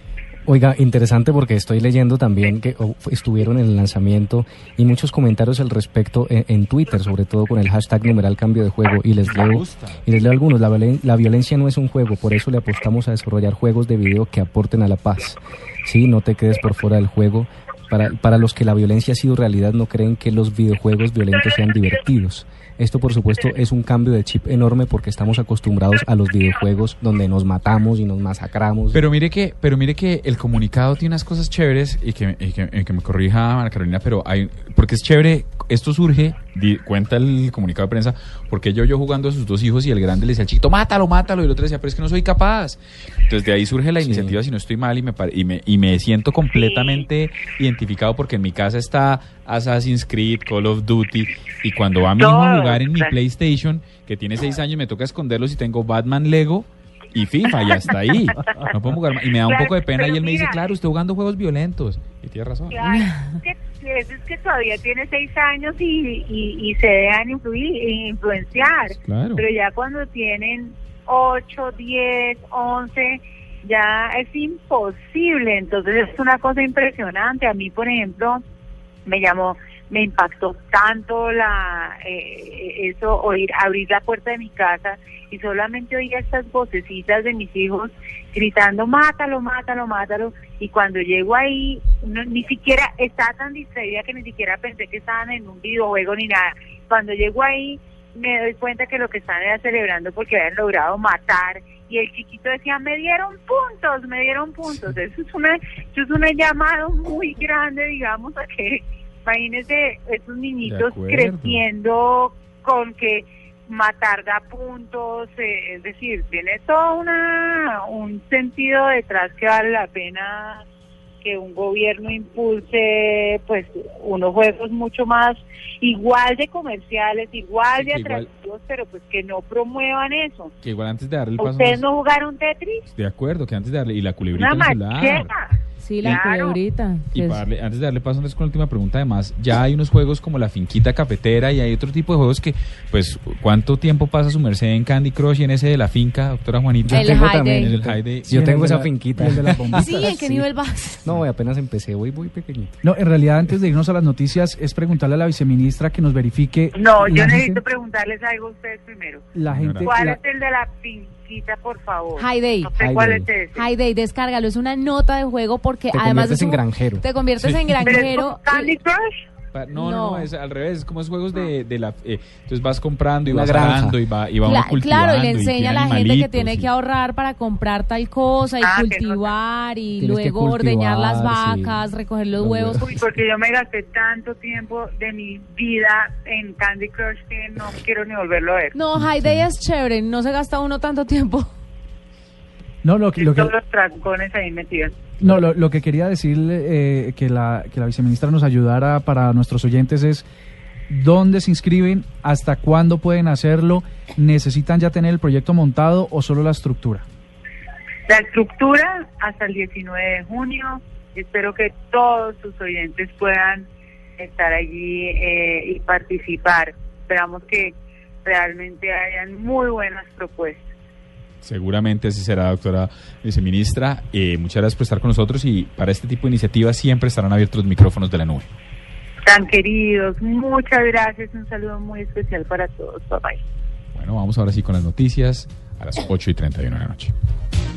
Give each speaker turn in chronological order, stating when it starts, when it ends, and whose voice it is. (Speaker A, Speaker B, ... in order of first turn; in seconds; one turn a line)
Speaker A: 0.5-29.0
Speaker B: 9.2-10.0
Speaker B: 28.9-62.8
Speaker A: 44.0-44.4
Speaker C: 46.5-47.0
Speaker C: 52.2-53.1
Speaker C: 59.5-60.6
Speaker C: 62.7-78.4
Speaker D: 62.9-63.3
Speaker B: 69.0-69.5
Speaker C: 79.1-120.6
Speaker B: 110.7-111.6
Speaker C: 121.2-130.5
Speaker B: 127.8-128.3
Speaker B: 130.6-131.8
Speaker C: 131.4-132.8
Speaker B: 132.9-135.3
Speaker C: 134.3-136.6
Speaker D: 135.8-137.4
Speaker B: 137.1-148.6
Speaker A: 146.8-150.4
Speaker D: 146.9-147.7
Speaker E: 148.3-150.1
Speaker D: 149.8-151.0
Speaker A: 151.0-152.8
Speaker E: 152.8-157.6
Speaker C: 156.8-159.2
Speaker E: 159.3-160.2
Speaker B: 159.5-159.9
Speaker C: 159.8-163.7
Speaker D: 162.2-162.7
Speaker A: 162.8-163.2
Speaker D: 163.6-168.7
Speaker A: 165.9-167.0
Speaker B: 167.4-167.8
Speaker C: 167.8-169.1
Speaker B: 169.5-176.7
Speaker D: 169.8-170.3
Speaker A: 173.3-174.0
Speaker D: 174.4-182.9
Speaker C: 178.6-179.3
Speaker A: 180.0-181.8
Speaker A: 182.4-183.0
Speaker C: 182.8-188.8
Speaker D: 188.7-191.5
Speaker E: 192.8-193.6
Speaker C: 193.2-195.2
Speaker E: 195.2-200.3
Speaker E: 200.9-207.1
Speaker C: 208.1-213.7
Speaker C: 214.2-217.7
Speaker C: 218.2-220.6
Speaker B: 221.4-228.5
Speaker C: 229.2-233.4
Speaker B: 233.9-237.1